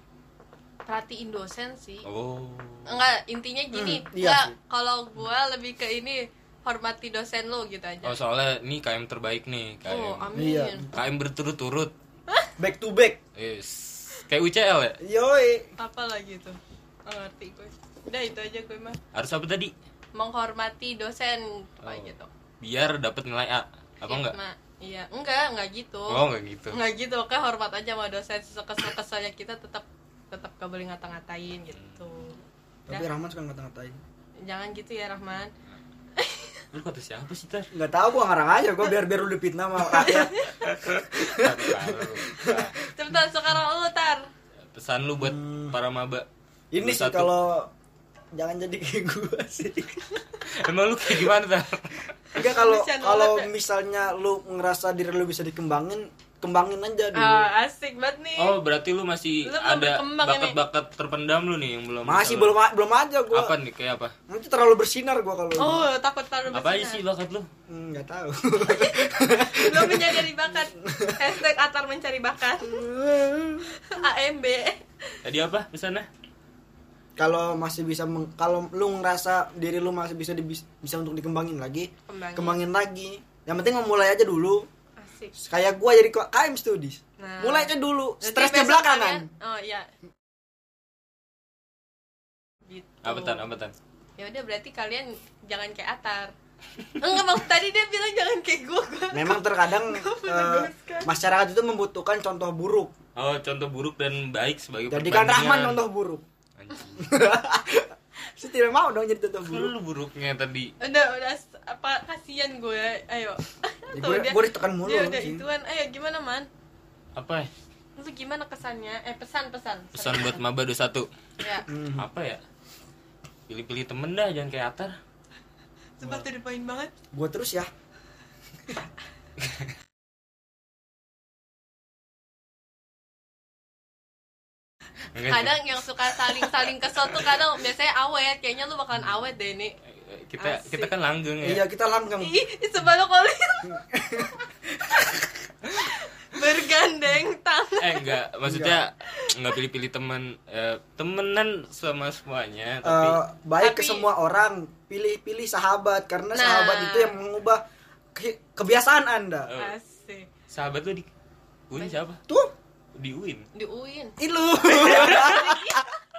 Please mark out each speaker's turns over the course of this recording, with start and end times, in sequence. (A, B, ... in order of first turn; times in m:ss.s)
0:00.9-0:02.1 A
0:02.0-0:03.0 B
0:02.9-0:08.2 A
0:03.7-0:04.5 C
0:08.0-0:10.3 B
0:09.9-0:10.9 A
0:10.4-0:10.9 C
0:10.9-0:11.9 B
0:12.6-0:13.2 C
0:13.4-0:15.0 B
0:15.0-0:15.7 C
0:15.8-0:19.0 A
0:19.1-0:19.7 B
0:20.1-0:22.3 A
0:21.8-0:24.4 B
0:24.0-0:33.1 A
0:26.1-0:26.8 B
0:31.7-0:32.1 B
0:32.9-0:34.0 C
0:34.4-0:35.5 A
0:36.2-0:36.6 A
0:36.7-0:37.7 B
0:37.7-0:40.3 C
0:39.9-0:40.5 A
0:40.6-0:42.8 B
0:41.1-0:42.7 C
0:42.9-0:44.3 A
0:44.7-0:47.3 B
0:45.2-0:45.8 C
0:46.7-0:47.7 C
0:48.3-0:50.0 C
0:50.4-0:52.0 B
0:52.3-0:57.5 C
0:52.4-0:53.5 A
0:57.1-0:58.6 A
0:58.4-1:02.6 B
0:59.4-1:00.6 A
1:02.0-1:03.6 C
1:03.3-1:04.1 B
1:04.3-1:05.9 C
1:05.6-1:07.0 A
1:06.5-1:07.5 B
1:07.7-1:11.3 C
1:08.6-1:12.8 A
1:12.6-1:13.7 C
1:13.8-1:15.2 A
1:15.2-1:16.1 B
1:17.2-1:24.7 C
1:22.1-1:22.6 A
1:25.0-1:25.4 A
1:25.4-1:29.3 C
1:27.2-1:29.9 A
1:32.7-1:33.4 A
1:33.0-1:33.8 B
1:34.2-1:36.3 A
1:37.0-1:41.1 A
1:39.1-1:42.9 C
1:43.2-1:45.8 B
1:44.9-1:46.2 C
1:46.6-1:47.1 B
1:47.0-1:49.7 C
1:49.4-1:50.7 B
1:50.8-1:56.5 A
1:53.9-1:55.4 C
1:57.2-1:57.5 B
1:58.0-2:00.4 A
1:59.9-2:01.1 B
2:01.4-2:01.7 A
2:01.7-2:02.1 C
2:02.0-2:02.4 B
2:03.5-2:05.0 B
2:06.0-2:06.9 A
2:07.1-2:07.7 C
2:15.1-2:15.6 B
2:15.3-2:19.8 A
2:16.3-2:16.6 B
2:20.0-2:21.6 B
2:20.4-2:20.9 A
2:21.4-2:22.3 C
2:22.2-2:24.2 A
2:23.6-2:25.3 C
2:25.7-2:28.2 A
2:27.8-2:33.2 B
2:28.4-2:28.8 C
2:29.1-2:29.3 A
2:32.8-2:37.6 C
2:33.6-2:34.1 A
2:36.4-2:37.2 A
2:38.1-2:39.5 C
2:39.5-2:39.8 B
2:39.6-2:40.3 A
2:40.5-2:41.1 B
2:41.7-2:42.2 B
2:42.9-2:43.4 B
2:43.5-2:44.2 A
2:44.2-2:45.8 C
2:44.7-2:45.9 A
2:44.8-2:45.5 B